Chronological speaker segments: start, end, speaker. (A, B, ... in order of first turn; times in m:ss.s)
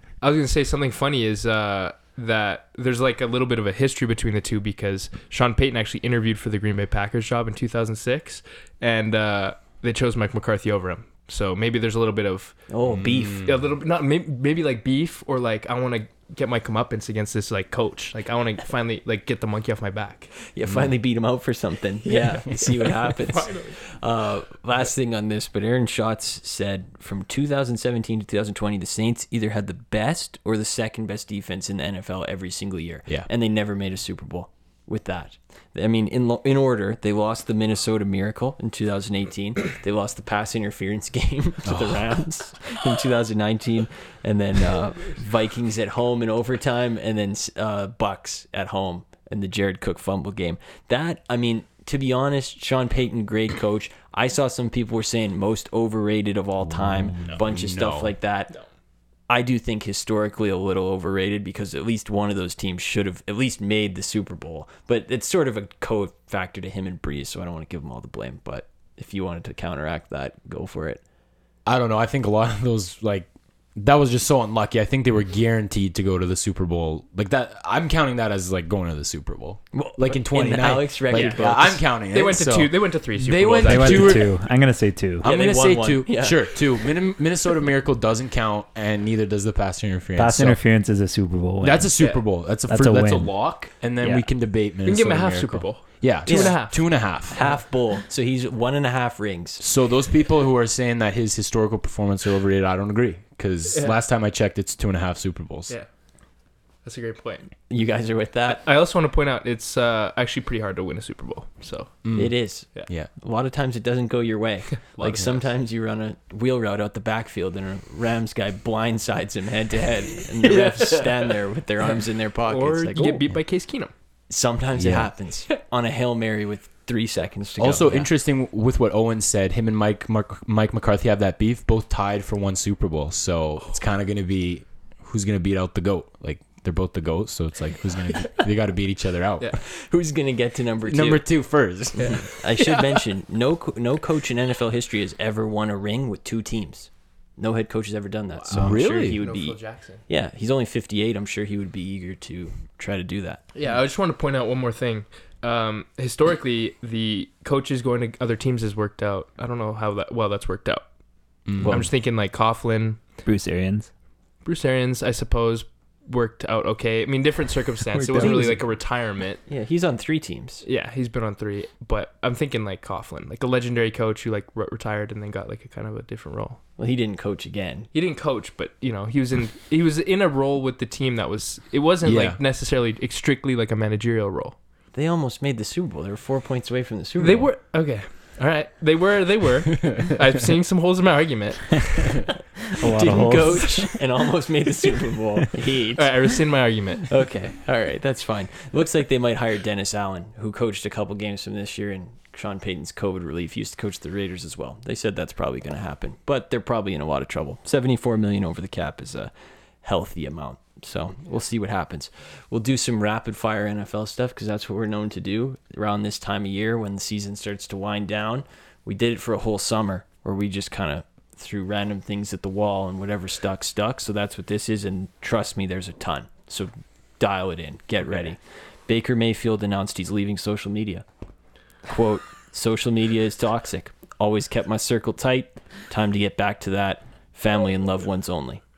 0:00.2-0:12.7 A
0:12.7-0:13.5 B
0:12.9-0:13.5 C
0:13.4-0:20.4 A
0:20.5-0:58.5 B
0:22.1-0:23.8 A
0:41.7-0:42.2 C
0:56.8-0:58.1 C
0:59.3-1:11.0 B
1:11.7-1:24.3 C
1:19.7-1:21.8 B
1:21.1-1:21.4 A
1:22.1-1:24.3 A
1:23.6-1:25.3 D
1:25.2-1:26.6 B
1:25.2-1:30.6 C
1:30.2-1:34.3 D
1:31.6-1:37.4 C
1:32.0-1:32.2 A
1:34.8-1:37.6 A
1:36.3-1:39.6 B
1:39.6-1:45.7 C
1:43.7-1:44.0 A
1:46.8-1:47.5 A
1:47.7-1:48.6 B
1:48.5-1:52.1 A
1:52.0-1:53.1 C
1:52.1-2:03.3 B
1:54.9-1:55.4 A
2:00.5-2:01.1 A
2:02.5-2:03.9 A
2:04.3-2:08.1 B
2:04.8-2:05.1 C
2:07.6-2:19.6 C
2:19.6-2:21.3 B
2:20.9-2:23.0 C
2:22.0-2:33.4 B
2:28.3-2:30.0 A
2:28.5-2:29.2 C
2:33.6-2:40.8 A
2:41.5-2:41.8 C
2:41.6-2:41.9 B
2:41.6-2:43.0 A
2:43.2-2:43.9 D
2:44.4-2:49.4 A
2:48.0-2:48.6 D
2:48.1-2:48.6 B
2:49.5-2:50.6 B
2:50.6-2:56.6 A
2:56.8-2:57.9 B
2:57.9-3:04.6 A
3:02.0-3:02.4 C
3:04.9-3:07.5 B
3:07.2-3:12.3 A
3:12.7-3:13.9 D
3:12.9-3:16.1 B
3:16.0-3:17.1 A
3:17.1-3:29.3 B
3:29.8-3:51.0 B
3:51.8-3:58.6 B